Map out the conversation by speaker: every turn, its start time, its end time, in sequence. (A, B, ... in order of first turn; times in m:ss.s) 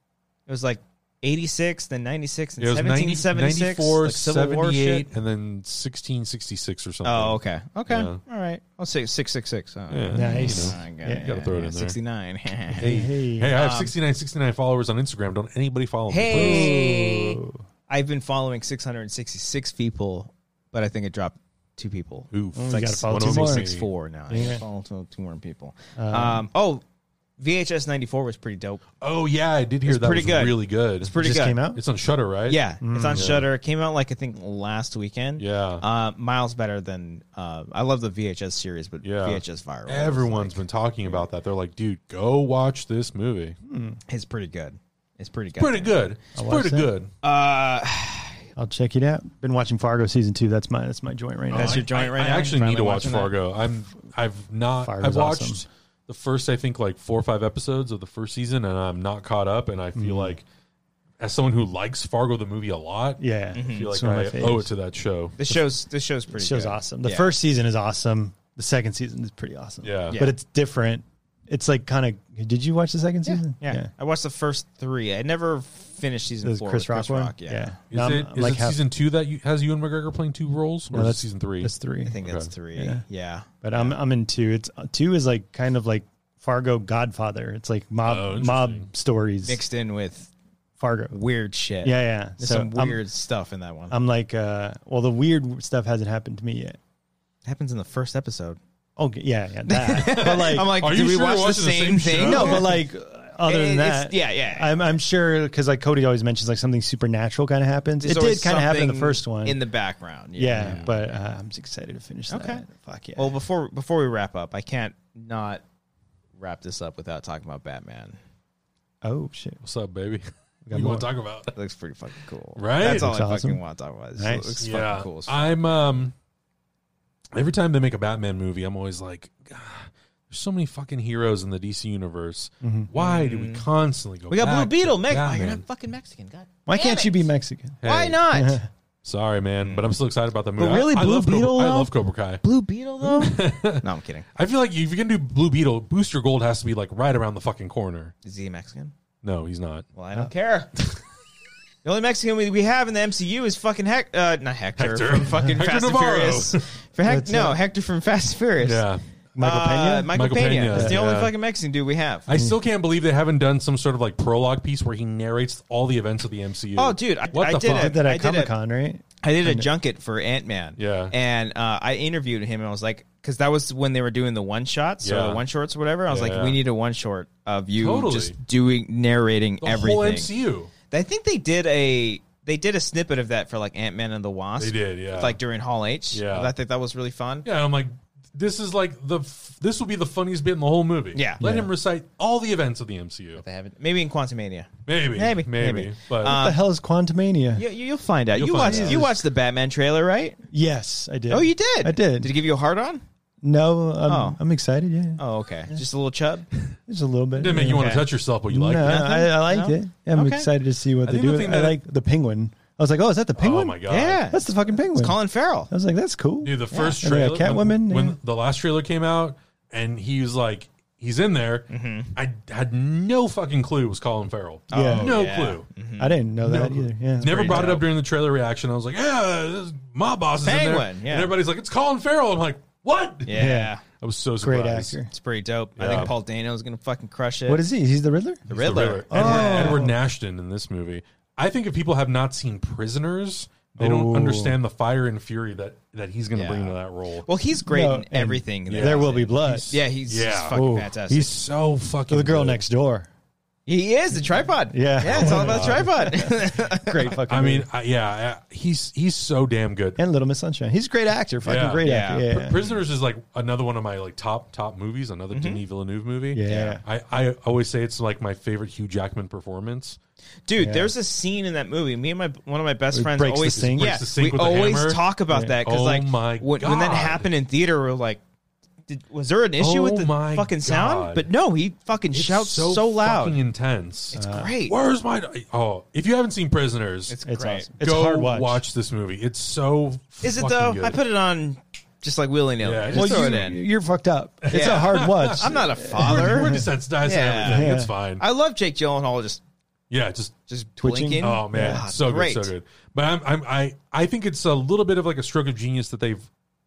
0:00.5-0:05.1 A
0:02.6-0:08.2 B
0:07.0-0:12.9 A
0:09.9-0:12.0 B
0:10.1-0:11.4 C
0:12.7-0:13.6 C
0:12.8-0:17.1 B
0:13.6-0:13.9 A
0:16.1-0:26.8 A
0:16.3-0:17.6 C
0:22.3-0:23.9 B
0:22.6-0:23.7 C
0:24.3-0:24.6 C
0:26.0-0:26.4 C
0:27.4-0:28.8 A
0:29.0-0:31.2 B
0:29.9-0:31.6 A
0:31.2-0:31.8 C
0:31.7-0:33.5 B
0:32.5-0:41.2 A
0:32.8-0:33.4 C
0:35.4-0:35.8 B
0:39.0-0:43.6 B
0:43.7-0:44.0 C
0:44.1-0:46.0 A
0:45.6-0:47.1 B
0:46.4-0:46.9 C
0:47.2-0:48.4 A
0:48.6-0:51.9 C
0:51.5-1:00.4 B
0:51.5-0:53.3 A
0:54.8-0:55.6 C
1:00.0-1:00.4 C
1:01.2-1:05.4 B
1:03.2-1:04.7 C
1:03.5-1:03.9 A
1:05.4-1:07.3 A
1:06.3-1:13.9 C
1:09.8-1:10.2 B
1:10.1-1:10.3 A
1:13.2-1:17.7 A
1:16.4-1:18.8 C
1:17.9-1:22.5 B
1:20.9-1:22.2 C
1:22.0-1:24.0 A
1:22.8-1:23.0 C
1:23.6-1:29.6 C
1:28.0-1:28.9 B
1:29.4-1:30.3 A
1:30.8-1:31.2 C
1:31.1-1:34.0 A
1:31.8-1:33.0 C
1:33.9-1:36.8 C
1:37.4-1:38.6 A
1:39.0-1:40.7 C
1:39.7-1:42.8 A
1:40.0-1:42.8 B
1:42.2-1:49.6 C
1:43.4-1:44.9 A
1:48.0-1:50.8 A
1:50.4-1:53.4 C
1:50.6-1:51.0 B
1:52.3-1:52.6 A
1:53.2-1:55.6 A
1:56.4-1:58.2 A
1:59.0-1:59.6 C
1:59.6-2:01.5 B
2:00.7-2:01.1 C
2:01.5-2:05.6 A
2:02.6-2:03.1 B
2:02.8-2:03.6 C
2:04.2-2:04.6 C
2:04.6-2:06.1 B
2:07.3-2:15.6 B
2:12.6-2:12.9 C
2:13.0-2:13.7 A
2:14.3-2:17.3 A
2:16.7-2:17.8 C
2:17.8-2:18.2 B
2:17.8-2:18.6 A
2:18.3-2:18.7 C
2:19.0-2:22.4 B
2:19.6-2:20.0 A
2:20.6-2:24.2 A
2:23.0-2:28.1 B
2:28.2-2:28.9 A
2:29.2-2:29.9 B
2:30.0-2:30.7 A
2:31.8-2:38.9 A
2:34.8-2:36.7 B
2:37.0-2:37.6 C
2:38.6-2:39.0 B
2:39.4-2:41.0 C
2:39.4-2:42.3 A
2:40.1-2:41.3 B
2:42.3-2:48.0 B
2:42.3-2:42.6 C
2:46.8-2:48.5 A
2:47.6-2:49.7 C
2:49.2-3:00.3 A
2:50.8-2:51.1 B
2:55.0-2:55.4 B
2:56.1-2:56.6 B
2:57.8-2:58.4 B
2:59.6-3:00.7 B
3:00.9-3:07.5 A
3:04.6-3:05.4 B
3:06.1-3:06.5 B
3:07.4-3:13.4 B
3:11.1-3:11.4 A
3:11.4-3:11.7 C
3:13.4-3:16.6 A
3:14.9-3:16.4 B
3:16.2-3:17.6 C
3:17.6-3:20.4 A
3:18.3-3:19.3 B
3:18.6-3:19.1 C
3:20.5-3:22.3 C
3:21.3-3:23.0 A
3:23.4-3:25.8 C
3:24.1-3:24.4 A
3:25.2-3:26.5 A
3:26.9-3:35.2 C
3:27.4-3:29.1 B
3:28.8-3:30.5 A
3:31.0-3:31.8 B
3:33.4-3:34.3 B
3:33.9-3:35.7 A
3:35.7-3:38.2 C
3:36.4-3:45.7 B
3:41.7-3:42.1 A
3:44.7-3:46.2 A
3:44.7-3:45.2 C
3:46.0-3:47.9 C
3:46.4-3:55.0 B
3:50.4-3:51.3 A
3:53.3-3:53.8 A
3:53.3-3:53.7 C
3:54.4-3:55.1 C
3:55.1-3:57.6 A
3:55.8-3:56.1 B
3:57.5-3:58.5 C
3:58.5-3:59.9 A
3:58.5-4:07.3 B
3:59.1-4:00.0 C
4:03.8-4:04.6 C
4:06.3-4:11.3 A
4:07.6-4:09.7 C
4:08.7-4:12.6 B
4:10.5-4:10.9 C
4:12.1-4:13.1 C
4:13.7-4:17.2 A
4:14.7-4:17.7 C
4:15.1-4:15.9 B
4:17.3-4:20.0 B
4:20.0-4:22.6 C
4:21.4-4:30.0 B
4:21.8-4:22.8 A
4:25.3-4:25.6 A
4:26.3-4:26.8 C
4:26.5-4:26.8 A
4:30.5-4:38.2 A
4:30.6-4:30.9 C
4:32.9-4:34.0 C
4:33.5-4:35.1 B
4:35.6-4:37.3 B
4:38.9-4:43.4 A
4:39.6-4:41.3 B
4:42.1-4:47.2 B
4:44.1-4:44.8 A
4:44.1-4:44.5 C
4:47.1-4:47.7 A
4:47.3-4:48.6 C
4:47.8-4:51.0 B
4:50.2-4:53.6 A
4:52.6-4:53.5 B
4:52.9-4:56.7 C
4:54.4-4:58.2 B
4:54.5-4:59.4 A
4:57.4-4:57.9 C
4:59.9-5:00.4 B
5:00.5-5:02.5 A
5:00.8-5:01.8 C
5:01.2-5:06.3 B